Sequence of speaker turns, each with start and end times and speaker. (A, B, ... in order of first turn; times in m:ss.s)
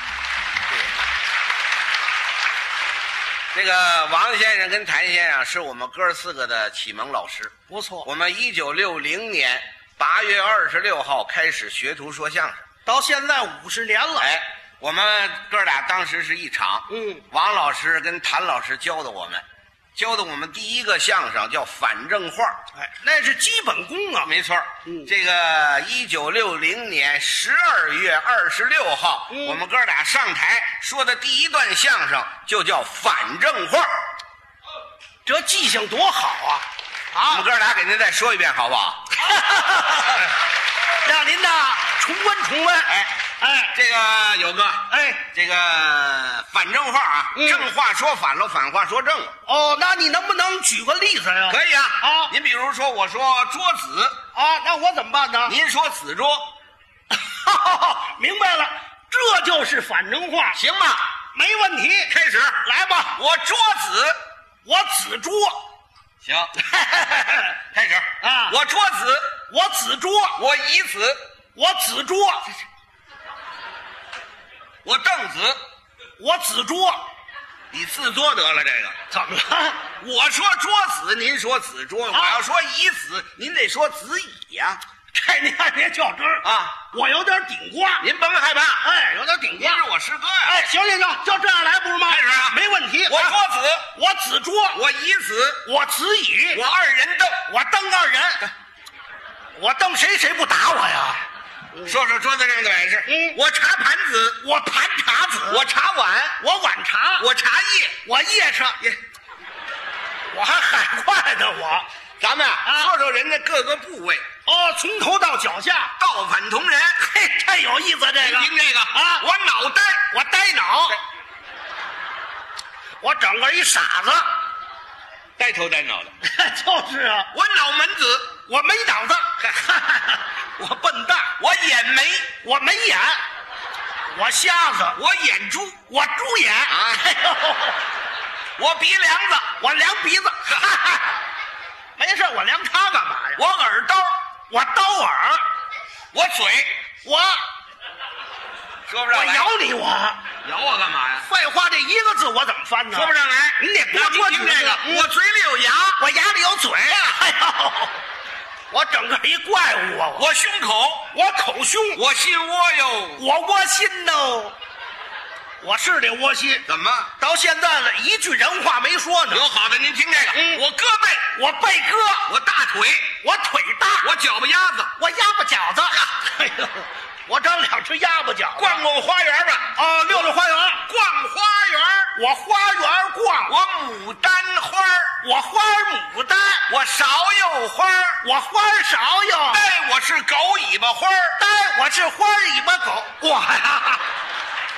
0:03.5-0:07.5 A
0:07.7-0:08.1 B
0:08.0-0:12.6 A
0:12.8-0:14.3 B
0:14.2-0:19.4 A
0:16.9-0:17.2 B
0:19.9-0:22.5 A
0:22.7-0:24.3 B
0:24.2-0:33.9 A
0:24.8-0:25.1 B
0:29.3-0:29.6 B
0:35.2-0:37.5 B
0:37.3-0:39.1 A
0:39.2-0:40.3 B
0:41.0-0:43.8 B
0:42.8-0:43.1 A
0:43.7-0:49.3 A
0:44.9-0:45.3 B
0:47.3-0:47.7 B
0:49.4-0:52.3 B
0:51.5-0:54.2 A
0:54.3-0:55.6 B
0:55.4-0:56.4 A
0:57.1-1:00.6 B
1:00.5-1:01.0 A
1:01.3-1:03.2 B
1:02.1-1:02.6 A
1:03.2-1:04.2 A
1:04.6-1:05.6 B
1:06.2-1:06.5 A
1:06.6-1:07.5 B
1:07.7-1:09.2 A
1:08.2-1:08.6 B
1:09.5-1:10.4 B
1:10.4-1:11.2 A
1:11.6-1:12.5 B
1:14.8-1:15.6 A
1:16.2-1:17.0 B
1:17.7-1:18.9 A
1:19.1-1:19.9 B
1:20.0-1:24.8 A
1:22.1-1:22.4 B
1:25.1-1:28.0 B
1:26.4-1:26.8 A
1:28.0-1:28.8 A
1:28.8-1:29.8 B
1:29.6-1:30.6 A
1:30.4-1:33.3 B
1:32.1-1:33.9 A
1:33.9-1:34.8 B
1:34.7-1:35.6 A
1:35.6-1:36.6 B
1:36.5-1:37.4 A
1:37.5-1:38.5 B
1:39.6-1:41.2 B
1:41.8-1:44.4 A
1:43.0-1:43.4 B
1:44.4-1:45.6 B
1:45.5-1:46.4 A
1:46.4-1:47.3 B
1:47.2-1:48.0 A
1:48.0-1:49.0 B
1:50.3-1:51.8 B
1:52.2-1:54.2 A
1:52.6-1:52.9 B
1:54.4-1:55.9 B
1:56.0-1:57.0 A
1:57.0-1:59.2 B
1:58.2-2:00.0 A
2:00.1-2:01.0 B
2:03.0-2:04.3 B
2:05.4-2:06.1 A
2:06.2-2:07.3 B
2:07.3-2:08.4 A
2:08.4-2:11.3 B
2:11.4-2:12.3 A
2:12.4-2:13.2 B
2:14.1-2:15.0 B
2:14.9-2:15.8 A
2:15.9-2:17.8 B
2:16.7-2:17.1 A
2:18.6-2:19.5 A
2:19.6-2:21.1 B
2:22.0-2:23.4 B
2:23.4-2:24.1 A
2:24.5-2:25.4 B
2:26.1-2:26.7 A
2:27.0-2:27.4 B
2:28.9-2:29.5 A
2:29.1-2:30.2 B
2:30.4-2:31.3 A
2:31.2-2:35.1 B
2:32.9-2:36.0 A
2:36.0-2:38.0 B
2:38.7-2:40.3 B
2:40.2-2:41.1 A
2:41.1-2:42.0 B
2:41.9-2:43.2 A
2:43.2-2:44.5 B
2:45.6-2:46.6 B
2:46.6-2:47.1 A
2:47.2-2:49.5 B
2:49.3-2:51.3 A
2:50.3-2:50.6 B
2:51.3-2:52.2 B
2:52.3-2:53.1 A
2:53.2-2:54.1 B
2:54.0-2:54.9 A
2:55.0-2:58.8 B
2:58.6-2:59.7 A
2:59.7-3:00.8 B
3:00.8-3:02.1 A
3:02.1-3:03.5 B
3:03.5-3:05.1 A
3:05.2-3:06.6 B
3:06.7-3:08.2 A
3:08.2-3:09.6 B
3:09.5-3:11.4 A
3:11.4-3:14.0 B